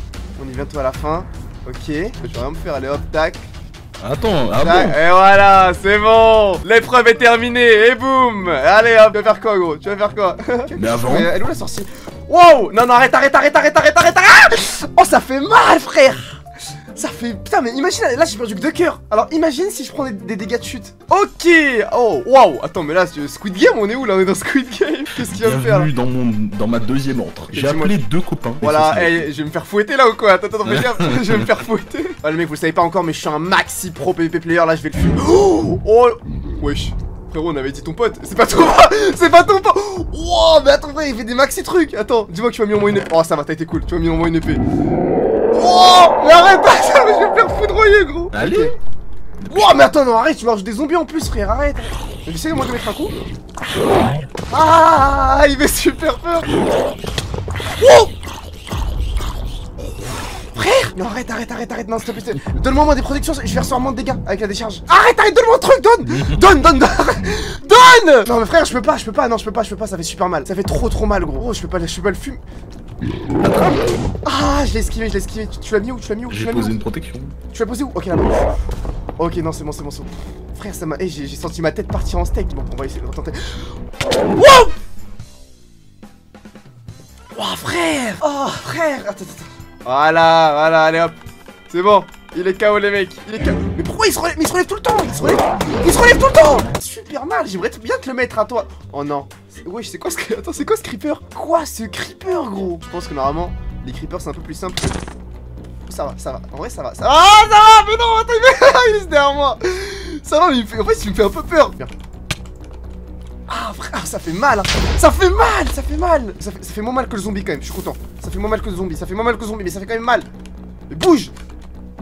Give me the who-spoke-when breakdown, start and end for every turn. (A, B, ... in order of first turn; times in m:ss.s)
0:00.4-0:03.5 A
0:04.0-0:05.0 B
0:04.6-0:16.4 A
0:10.8-0:11.3 B
0:16.9-0:25.9 A
0:25.1-0:29.3 B
0:27.5-0:28.0 A
0:28.6-0:44.6 A
0:30.6-0:31.5 B
0:45.5-0:48.8 A
0:48.3-0:48.7 B
0:49.5-0:53.2 A
0:54.5-0:56.5 A
0:57.7-0:58.1 A
1:00.4-1:12.4 A
1:06.1-1:06.5 B
1:13.4-1:13.8 B
1:14.2-1:16.8 A
1:16.3-1:17.4 B
1:17.5-1:18.5 A
1:19.2-1:23.8 A
1:24.3-1:24.7 A
1:27.3-1:31.1 A
1:31.7-1:45.0 A
1:45.9-1:51.9 A
1:53.5-2:00.3 A
2:00.9-2:01.3 A